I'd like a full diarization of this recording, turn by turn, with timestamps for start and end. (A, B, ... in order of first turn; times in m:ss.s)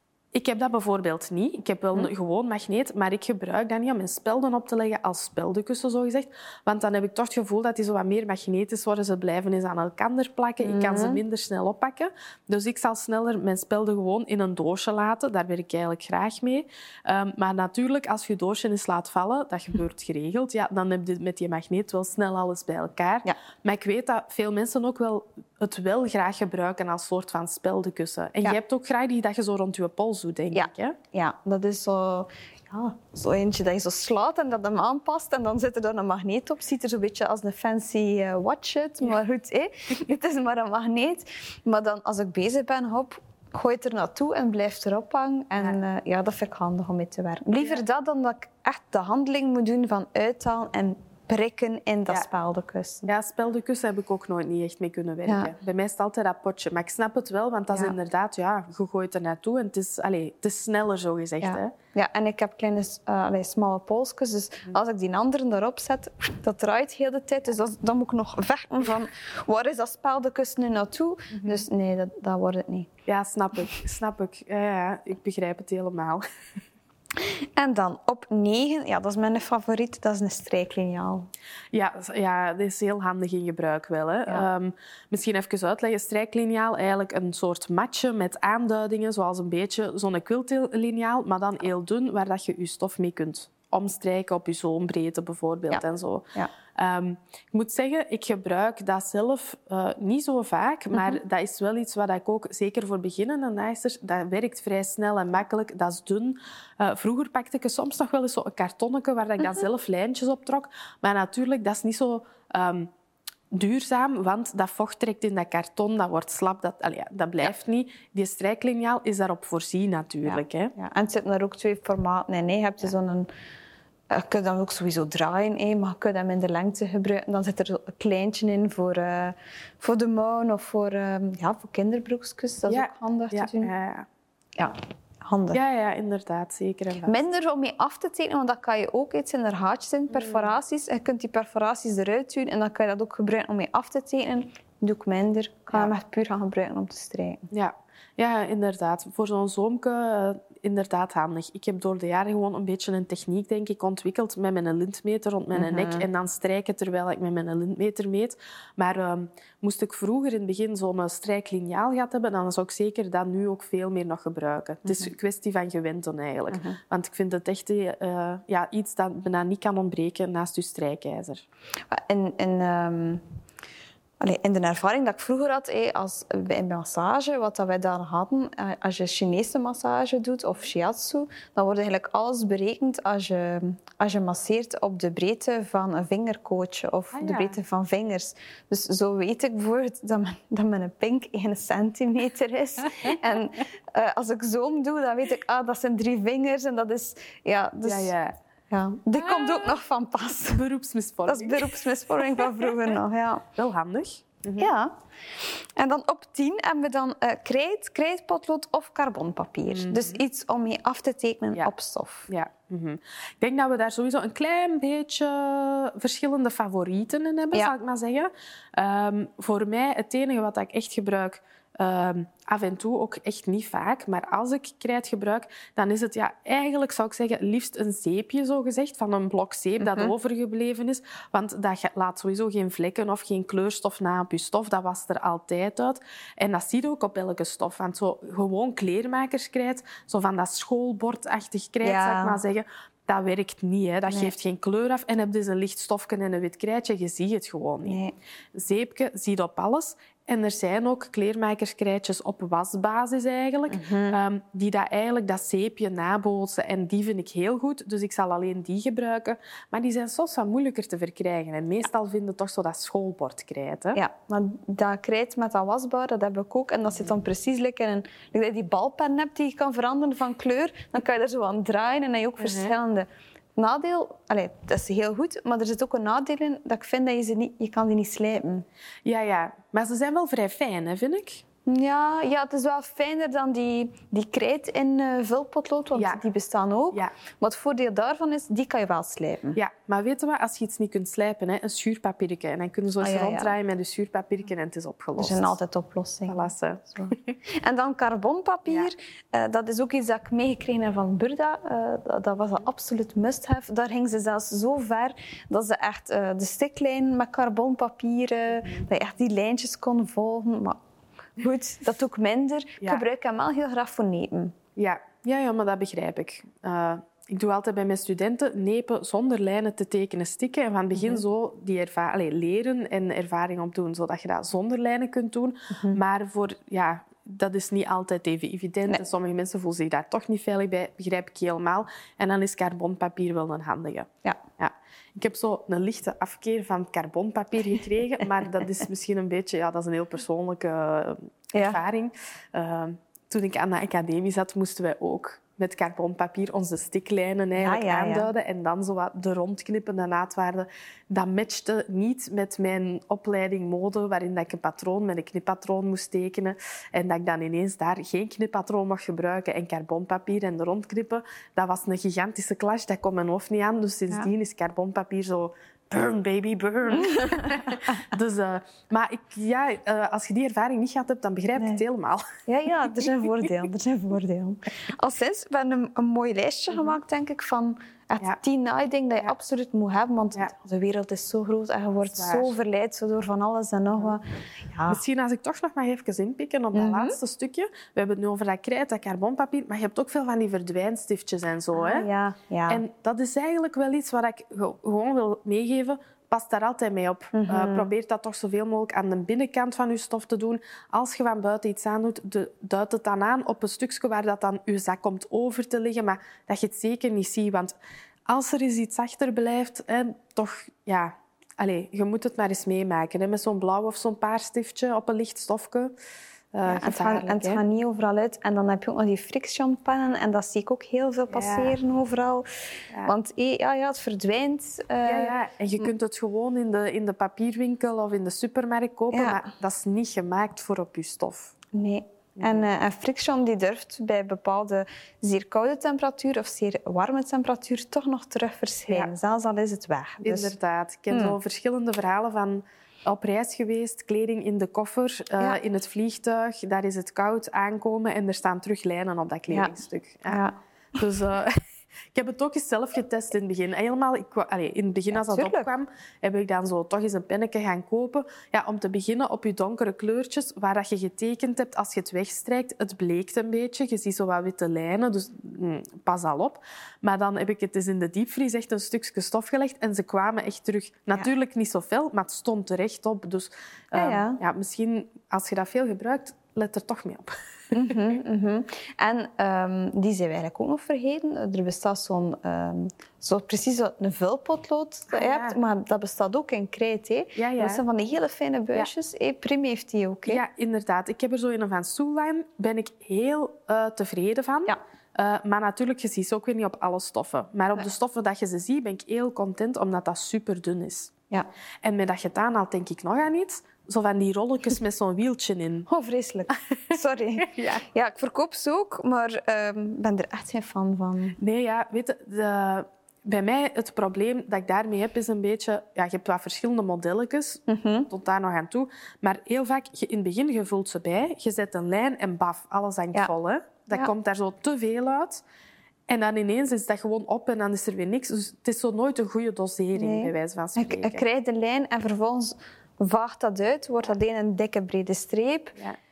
0:00.3-0:31.0 A
0:10.6-0:11.2 B
0:30.5-0:53.1 B
0:53.1-1:01.7 A
0:55.3-0:55.5 B
1:01.4-1:12.9 B
1:11.3-1:11.6 A
1:13.1-1:16.2 A
1:17.2-1:21.3 B
1:21.7-1:52.9 A
1:53.5-2:00.7 A
2:00.2-2:03.3 B
2:04.1-2:13.7 B
2:12.7-2:14.1 A
2:14.6-2:15.6 B
2:15.5-2:17.2 A
2:17.1-2:27.5 B
2:20.1-2:20.5 A
2:27.5-2:51.4 A
2:35.5-2:36.1 B
2:46.5-2:46.8 B
2:51.9-2:53.2 B
2:54.2-3:18.1 B
3:07.1-3:07.6 A
3:17.8-3:18.4 A
3:18.7-3:20.6 B
3:19.3-3:19.6 A
3:20.5-3:21.8 A
3:21.3-3:23.4 B
3:22.3-3:22.7 A
3:23.6-3:24.7 A
3:24.6-3:32.3 B
3:29.7-3:30.2 A
3:32.3-4:08.0 A
3:49.8-3:50.1 B
4:01.8-4:02.4 B
4:07.9-4:08.2 B
4:08.5-4:24.0 A
4:13.7-4:14.2 B
4:24.0-4:38.6 B
4:32.4-4:32.7 A
4:39.0-4:41.4 A
4:41.7-4:49.6 B
4:46.0-4:46.2 A
4:49.6-4:55.6 A
4:53.0-4:53.5 B
4:55.2-5:10.8 B
4:56.3-4:57.4 A
5:11.4-5:14.6 B
5:14.8-6:12.2 A
5:25.7-5:26.0 B
5:41.5-5:41.8 B
5:47.6-5:48.3 B
6:07.0-6:07.8 B
6:11.6-6:11.8 B
6:12.5-6:25.0 B
6:22.1-6:22.5 A
6:24.9-6:32.1 A
6:26.7-6:27.2 B
6:31.7-6:32.8 B
6:32.7-6:56.0 A
6:37.3-6:37.9 B
6:56.5-6:57.6 A
6:56.6-7:02.5 B
7:01.3-7:01.8 A
7:03.0-7:05.8 B
7:05.0-7:11.5 A
7:09.1-7:09.4 B
7:11.7-7:20.5 B
7:20.2-7:30.4 A
7:21.1-7:21.4 B
7:30.3-7:30.6 B
7:31.0-7:31.6 A
7:32.1-7:58.0 A
7:35.1-7:35.7 B
7:53.9-7:54.4 B
7:57.7-8:10.4 B
8:05.1-8:05.6 A
8:07.4-8:07.8 A
8:10.3-8:21.1 A
8:21.8-8:25.9 A
8:25.9-8:31.4 B
8:27.4-8:27.8 A
8:31.4-8:45.4 A
8:37.7-8:38.1 B
8:46.1-8:51.2 A
8:50.0-8:55.8 B